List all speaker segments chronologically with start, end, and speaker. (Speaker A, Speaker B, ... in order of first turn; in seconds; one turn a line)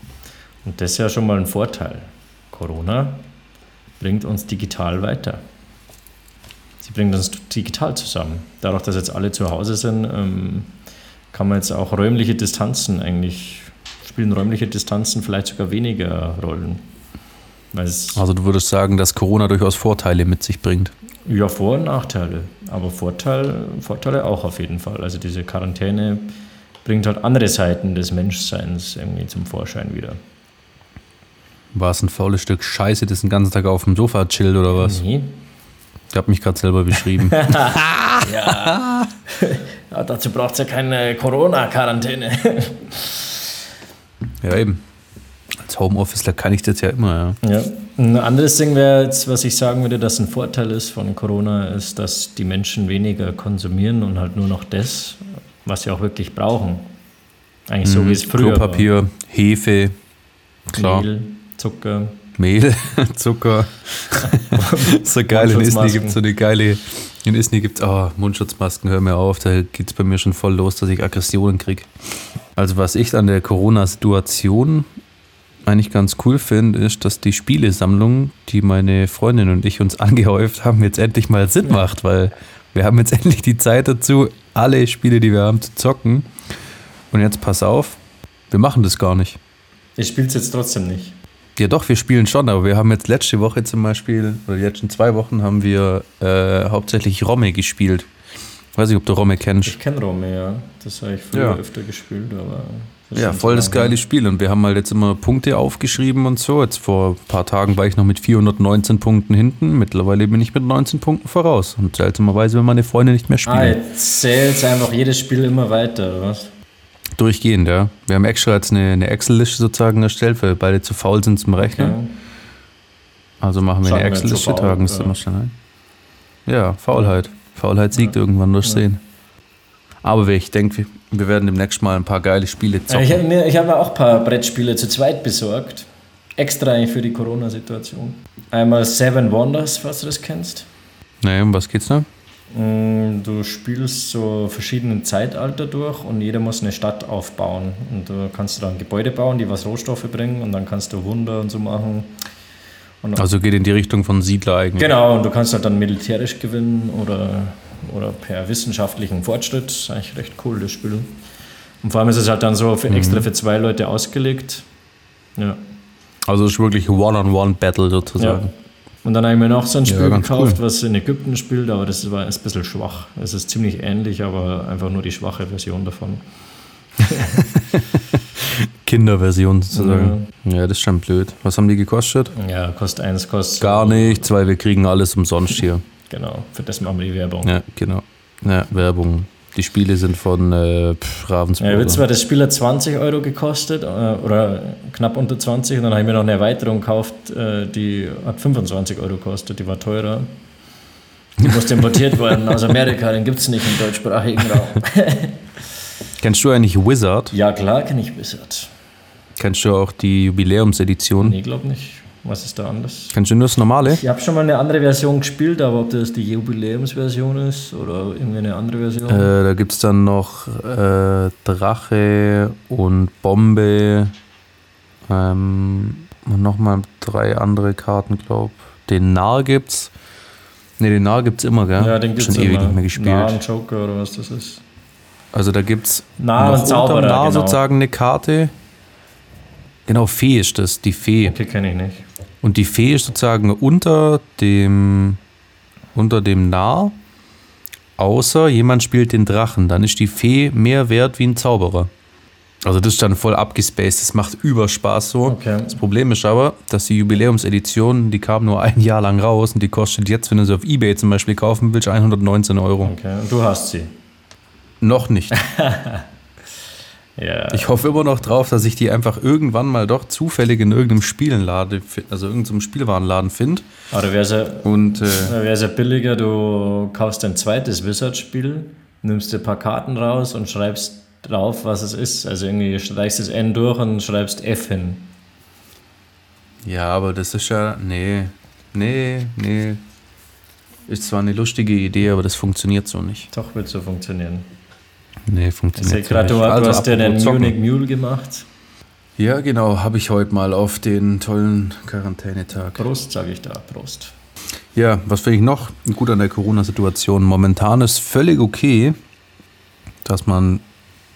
Speaker A: 0.6-3.2
Speaker A: 4.0-5.4
Speaker A: 6.8-10.7
Speaker A: 11.3-16.8
Speaker A: 17.7-18.2
Speaker B: 18.1-20.9
Speaker A: 21.2-30.2
Speaker B: 31.7-35.0
Speaker A: 34.7-35.4
Speaker B: 36.1-39.1
Speaker A: 37.2-43.5
Speaker B: 44.4-44.8
Speaker B: 45.6-47.4
Speaker A: 47.4-56.9
Speaker A: 57.7-58.9
Speaker B: 57.8-60.0
Speaker B: 60.7-61.0
Speaker A: 60.7-62.2
Speaker B: 62.4-71.9
Speaker A: 64.2-66.2
Speaker B: 72.5-74.8
Speaker B: 75.6-86.3
Speaker B: 87.1-88.0
Speaker B: 88.5-89.4
Speaker A: 90.0-91.1
Speaker B: 91.5-98.1
Speaker B: 98.7-99.8
Speaker A: 99.6-104.0
Speaker B: 101.3-101.6
Speaker B: 103.1-113.8
Speaker A: 113.4-116.5
Speaker B: 117.2-122.0
Speaker A: 121.6-122.1
Speaker B: 123.4-125.5
Speaker A: 123.8-125.1
Speaker B: 126.5-129.0
Speaker A: 128.0-128.8
Speaker B: 130.0-133.2
Speaker A: 132.9-140.7
Speaker B: 141.2-142.1
Speaker A: 142.5-152.1
Speaker B: 153.2-154.9
Speaker A: 154.8-161.2
Speaker A: 161.8-164.7
Speaker B: 162.9-163.3
Speaker B: 166.2-168.5
Speaker A: 168.2-168.4
Speaker A: 169.0-176.2
Speaker B: 169.8-170.6
Speaker A: 177.0-177.4
Speaker B: 177.4-182.3
Speaker A: 179.7-180.3
Speaker A: 182.3-184.3
Speaker B: 183.6-185.8
Speaker A: 186.1-187.5
Speaker B: 187.4-192.0
Speaker A: 191.6-200.3
Speaker A: 201.4-205.4
Speaker B: 201.4-202.1
Speaker B: 206.2-207.3
Speaker A: 207.3-208.7
Speaker B: 209.4-211.4
Speaker A: 211.2-213.1
Speaker B: 213.1-214.0
Speaker A: 213.8-219.3
Speaker B: 219.1-224.1
Speaker B: 225.1-229.9
Speaker B: 230.8-233.4
Speaker A: 231.8-234.6
Speaker B: 235.3-238.5
Speaker A: 236.2-237.6
Speaker B: 239.8-241.4
Speaker A: 241.2-242.1
Speaker B: 242.4-245.2
Speaker B: 245.9-247.0
Speaker B: 248.0-251.9
Speaker B: 252.6-262.9
Speaker A: 255.2-255.8
Speaker A: 262.8-263.9
Speaker B: 264.8-265.3
Speaker A: 265.3-266.1
Speaker A: 267.2-267.8
Speaker B: 267.5-273.6
Speaker A: 273.9-285.1
Speaker B: 274.6-275.4
Speaker B: 286.6-289.8
Speaker B: 290.9-293.3
Speaker A: 293.3-294.5
Speaker B: 295.3-297.6
Speaker A: 295.7-298.4
Speaker B: 299.2-302.8
Speaker A: 302.8-304.1
Speaker B: 304.7-309.0
Speaker B: 310.0-310.6